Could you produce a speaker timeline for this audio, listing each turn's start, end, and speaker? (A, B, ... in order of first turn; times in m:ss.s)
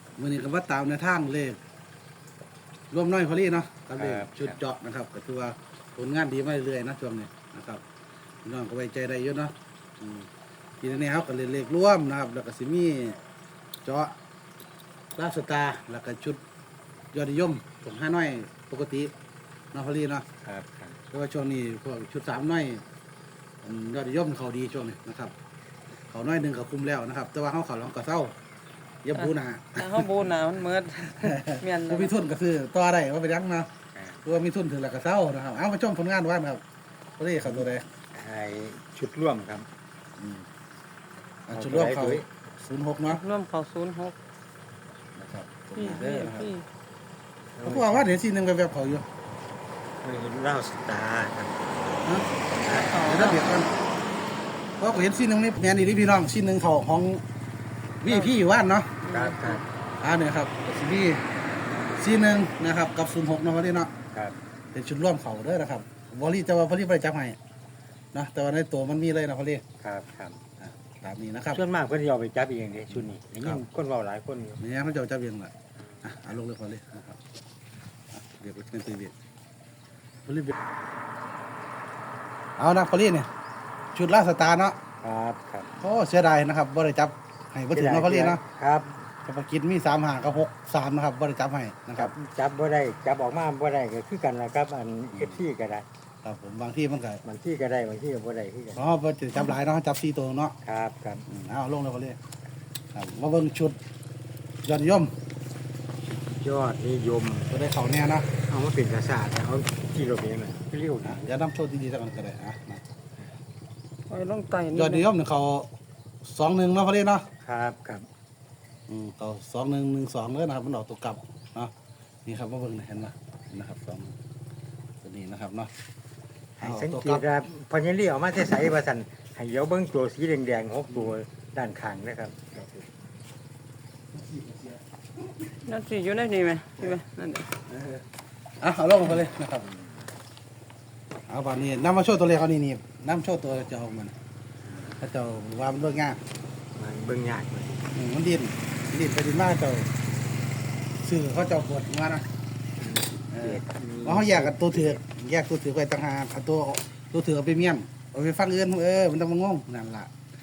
0:00.2-0:01.6 A
0:02.9-0:07.8 A
0:04.0-0:04.6 B
0:08.4-0:10.3 A
0:10.8-0:13.2 A
0:13.8-0:14.2 A
0:15.2-0:16.4 A
0:17.1-0:19.1 A
0:19.7-0:20.2 A
0:20.4-0:21.0 B
0:21.1-0:22.8 A
0:23.6-0:25.3 A
0:26.1-0:28.4 A
0:29.0-0:30.2 A
0:29.2-0:32.2 C
0:31.2-0:33.7 A
0:33.9-0:34.2 B
0:34.2-0:36.6 A
0:37.2-0:37.9 A
0:37.4-0:39.7 B
0:40.2-0:40.5 A
0:41.5-0:43.2 A
0:41.5-0:42.3 B
0:43.1-0:44.2 C
0:45.2-0:46.5 A
0:45.8-0:46.6 C
0:47.6-0:48.1 B
0:47.6-0:49.0 A
0:50.0-0:51.8 B
0:52.6-0:53.0 B
0:52.8-0:53.5 C
0:53.0-0:53.7 A
0:54.8-0:57.2 A
0:58.0-0:59.0 A
0:58.1-0:58.3 C
0:59.0-0:59.6 C
0:59.1-0:59.7 B
1:00.0-1:01.2 A
1:02.0-1:03.9 A
1:04.7-1:07.4 A
1:08.1-1:09.6 A
1:09.8-1:10.4 B
1:10.6-1:11.6 A
1:11.5-1:14.6 B
1:12.9-1:13.6 A
1:14.6-1:17.2 A
1:18.1-1:19.1 A
1:20.2-1:20.6 A
1:22.6-1:23.3 A
1:23.9-1:24.8 A
1:25.0-1:25.8 B
1:25.8-1:28.4 A
1:27.7-1:29.0 B
1:29.2-1:32.1 A
1:32.0-1:35.9 B
1:35.2-1:35.4 A
1:36.2-1:37.2 A
1:37.2-1:38.9 B
1:38.8-1:40.6 A
1:40.6-1:41.3 B
1:41.3-1:42.2 A
1:42.9-1:43.8 A
1:44.6-1:45.1 A
1:46.1-1:47.5 B
1:47.5-1:48.3 A
1:48.5-1:51.3 B
1:51.0-1:52.8 A
1:54.1-1:55.1 C
1:54.7-1:55.7 A
1:56.2-1:57.2 A
1:57.4-1:58.1 B
1:58.9-2:01.7 A
2:02.3-2:04.2 A
2:05.0-2:05.7 A
2:06.6-2:12.9 B
2:06.6-2:07.2 A
2:14.1-2:14.8 A
2:15.6-2:17.5 C
2:17.7-2:18.0 A
2:18.6-2:19.7 A
2:19.7-2:20.0 B
2:21.3-2:24.1 A
2:25.0-2:26.2 A
2:26.8-2:27.9 B
2:27.9-2:29.9 A
2:31.0-2:32.3 A
2:32.8-2:35.0 B
2:33.3-2:40.1 A